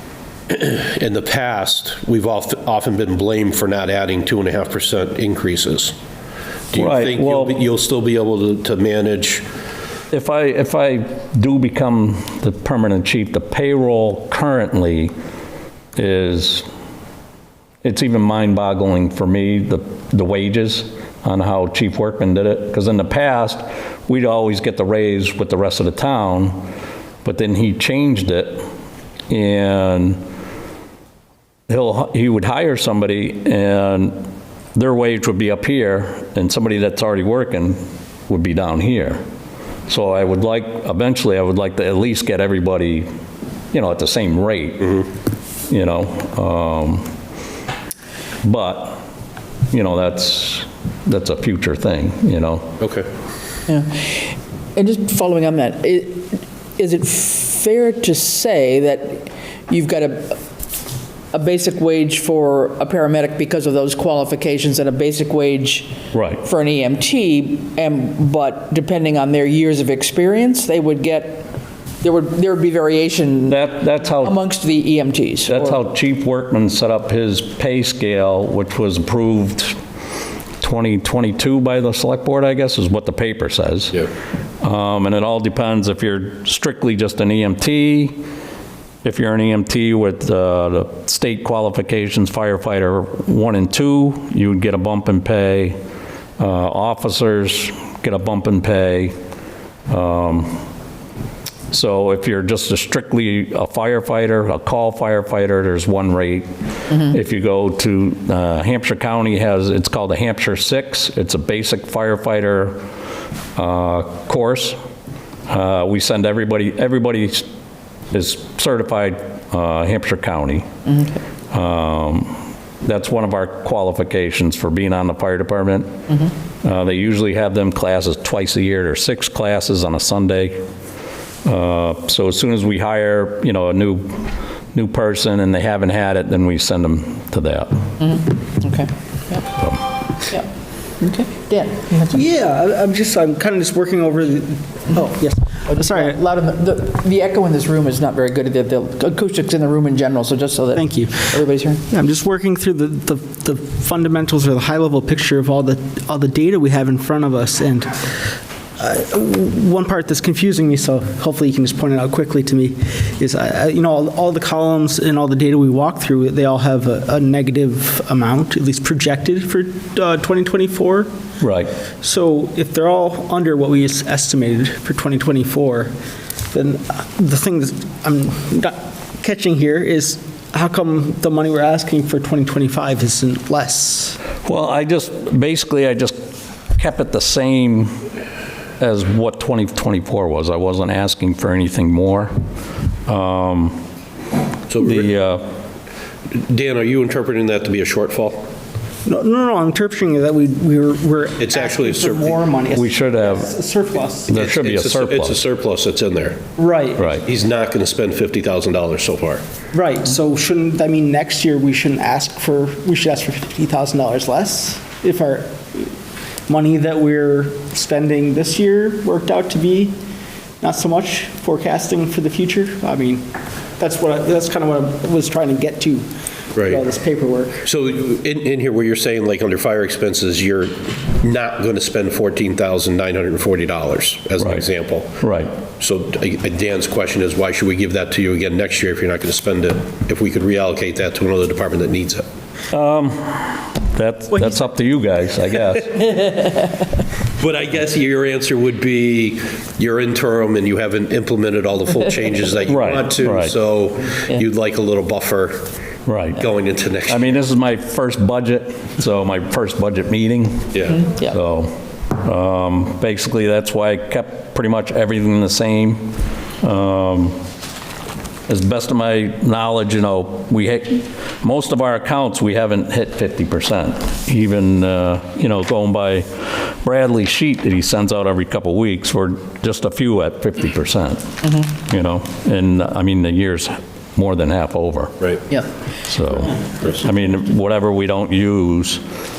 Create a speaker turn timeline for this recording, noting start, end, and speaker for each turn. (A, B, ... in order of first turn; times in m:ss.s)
0:00.5-0:06.0 A
0:06.7-0:09.4 A
0:06.8-0:07.6 B
0:10.1-0:15.1 B
0:16.0-0:16.7 B
0:17.8-0:26.7 B
0:27.2-0:28.6 B
0:29.3-0:30.2 B
0:31.7-0:39.2 B
0:39.9-0:43.1 B
0:43.7-0:45.0 B
0:45.7-0:47.1 B
0:48.4-0:49.0 B
0:49.7-0:52.8 B
0:52.8-0:53.1 A
0:53.7-1:00.4 C
1:01.3-1:11.5 C
1:06.1-1:06.4 B
1:12.0-1:13.6 C
1:13.5-1:14.4 B
1:14.2-1:15.8 C
1:15.5-1:19.8 B
1:20.6-1:24.0 B
1:24.6-1:28.2 B
1:29.0-1:35.8 B
1:36.4-1:39.1 B
1:39.9-1:40.6 B
1:41.7-1:52.8 B
1:53.6-1:54.8 B
1:55.5-1:57.5 B
1:58.1-2:00.7 B
2:00.9-2:01.2 C
2:01.5-2:06.0 B
2:06.6-2:10.6 B
2:11.4-2:17.7 B
2:18.0-2:19.5 C
2:19.6-2:19.9 B
2:21.0-2:22.3 C
2:22.1-2:26.2 D
2:25.6-2:31.8 C
2:30.7-2:38.1 D
2:38.8-2:51.1 D
2:51.4-2:51.7 B
2:52.0-2:55.9 D
2:56.5-3:04.2 D
3:04.4-3:06.2 B
3:06.8-3:07.9 B
3:08.8-3:12.3 B
3:13.1-3:13.8 B
3:14.7-3:15.1 A
3:14.8-3:15.4 B
3:16.3-3:18.5 A
3:19.0-3:24.3 D
3:21.4-3:22.5 A
3:22.7-3:23.5 B
3:24.3-3:25.4 B
3:24.3-3:26.4 A
3:26.6-3:27.1 D
3:27.1-3:29.4 A
3:29.7-3:35.9 D
3:36.5-3:40.0 D
3:40.6-3:43.2 D
3:43.8-3:46.1 D
3:46.6-3:46.8 A
3:46.6-3:47.6 D
3:47.6-3:55.2 A
3:54.4-3:54.7 B
3:55.2-3:55.5 B
3:55.8-4:02.2 A
4:02.7-4:06.0 B
4:07.4-4:15.7 A
4:12.7-4:13.6 B
4:16.1-4:16.4 B
4:16.4-4:17.4 A
4:17.1-4:27.4 B
4:20.7-4:21.0 A
4:21.0-4:21.3 C
4:28.5-4:45.3 B
4:46.0-4:49.0 B